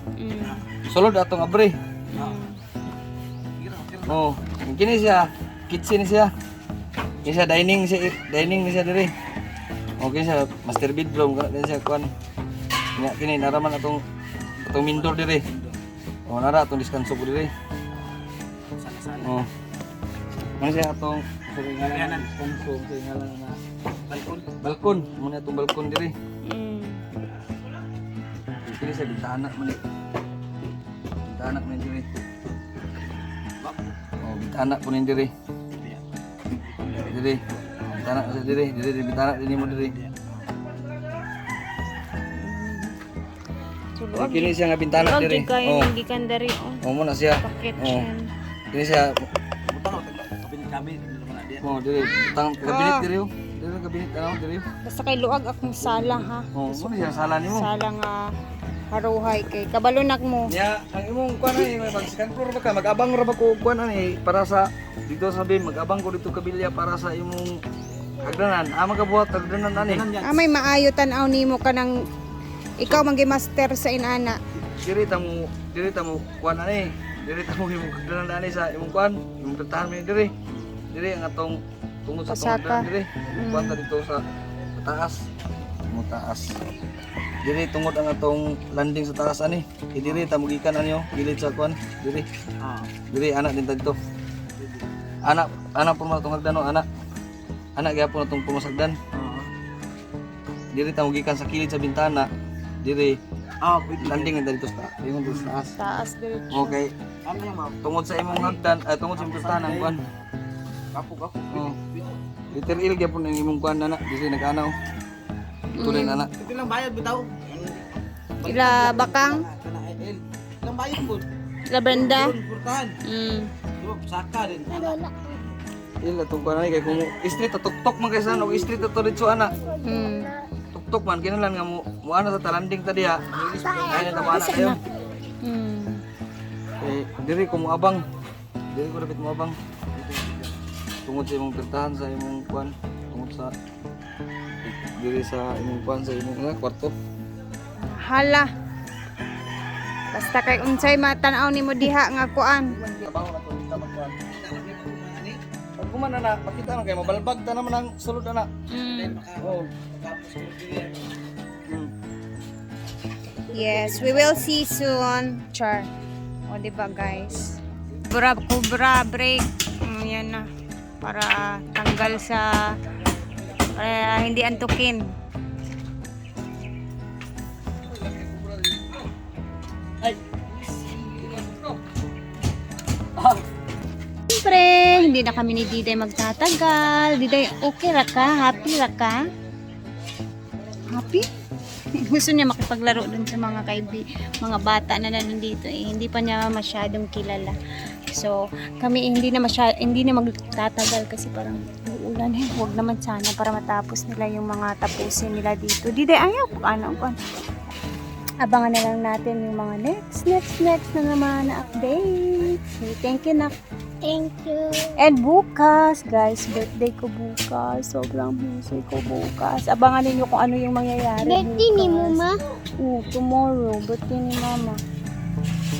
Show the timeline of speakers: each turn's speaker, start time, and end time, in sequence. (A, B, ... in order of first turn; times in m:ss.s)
0:00.2-0:00.6 A
0:00.9-0:01.8 B
0:02.1-0:02.6 A
0:03.6-0:04.2 C
0:04.1-0:06.3 B
0:07.2-0:09.1 B
0:10.0-0:12.1 B
0:13.0-0:14.0 B
0:14.6-0:15.8 C
0:14.7-0:15.4 B
0:16.3-0:17.5 B
0:18.7-0:19.3 C
0:19.2-0:19.5 B
0:20.6-0:23.6 B
0:21.9-0:22.3 C
0:24.1-0:24.5 C
0:24.6-0:26.1 B
0:26.4-0:27.0 A
0:28.6-0:29.8 B
0:31.3-0:32.0 B
0:33.6-0:33.9 C
0:34.2-0:35.3 B
0:35.7-0:36.0 C
0:36.6-0:38.0 C
0:37.0-0:40.0 B
0:39.8-0:40.3 C
0:42.3-0:43.0 A
0:44.0-0:46.8 A
0:44.2-0:45.9 B
0:46.8-0:48.1 B
0:47.4-0:48.3 A
0:48.7-0:49.1 B
0:49.7-0:51.6 C
0:51.6-0:54.6 B
0:52.6-0:53.1 A
0:54.8-0:58.2 A
0:55.8-0:57.7 B
0:58.9-1:00.5 A
1:00.5-1:07.5 B
1:08.2-1:10.1 B
1:09.7-1:10.3 C
1:10.2-1:11.9 A
1:12.8-1:14.4 A
1:14.8-1:20.3 B
1:20.5-1:20.8 C
1:20.9-1:24.2 B
1:22.3-1:23.8 A
1:24.8-1:25.2 B
1:25.9-1:26.4 B
1:27.4-1:32.2 B
1:30.0-1:30.3 C
1:32.6-1:32.9 C
1:33.1-1:34.0 B
1:34.6-1:34.8 C
1:35.3-1:36.8 B
1:37.8-1:39.0 B
1:39.1-1:39.5 C
1:40.7-1:42.3 B
1:42.8-1:43.2 B
1:43.6-1:44.3 C
1:44.0-1:45.8 B
1:45.8-1:46.8 A
1:46.5-1:46.9 B
1:47.2-1:48.5 C
1:47.8-1:50.0 B
1:49.2-1:50.0 C
1:50.9-1:52.1 C
1:52.5-1:54.7 B
1:55.7-1:56.3 B
1:55.8-1:56.3 A
1:56.3-2:01.3 C
1:58.4-1:59.4 A
2:01.7-2:02.4 A
2:01.9-2:03.0 C
2:03.0-2:03.5 A
2:03.8-2:05.0 C
2:04.7-2:05.4 D
2:06.0-2:09.5 B
2:09.8-2:10.3 A
2:10.7-2:13.2 B
2:13.3-2:14.0 C
2:13.8-2:14.8 B
2:14.2-2:14.8 A
2:15.4-2:16.0 A
2:16.8-2:18.0 B
2:18.7-2:19.5 B
2:19.9-2:20.5 C
2:21.0-2:23.5 B
2:24.6-2:26.9 B
2:27.9-2:28.5 A
2:30.1-2:32.7 A
2:32.7-2:34.3 B
2:34.3-2:35.4 C
2:35.8-2:38.5 B
2:38.7-2:39.2 A
2:38.8-2:41.1 C
2:39.4-2:39.7 B
2:43.5-2:45.9 A
2:46.5-2:47.5 A
2:48.0-2:50.4 A
2:51.0-2:52.5 A
2:53.7-2:55.0 A
2:57.8-2:59.1 B
3:00.0-3:01.8 B
3:04.3-3:09.2 A
3:10.9-3:11.2 A
3:12.0-3:17.6 A
3:18.1-3:27.2 A
3:28.4-3:33.5 A
3:34.0-3:35.0 D
3:35.0-3:44.8 A
3:41.2-3:42.4 D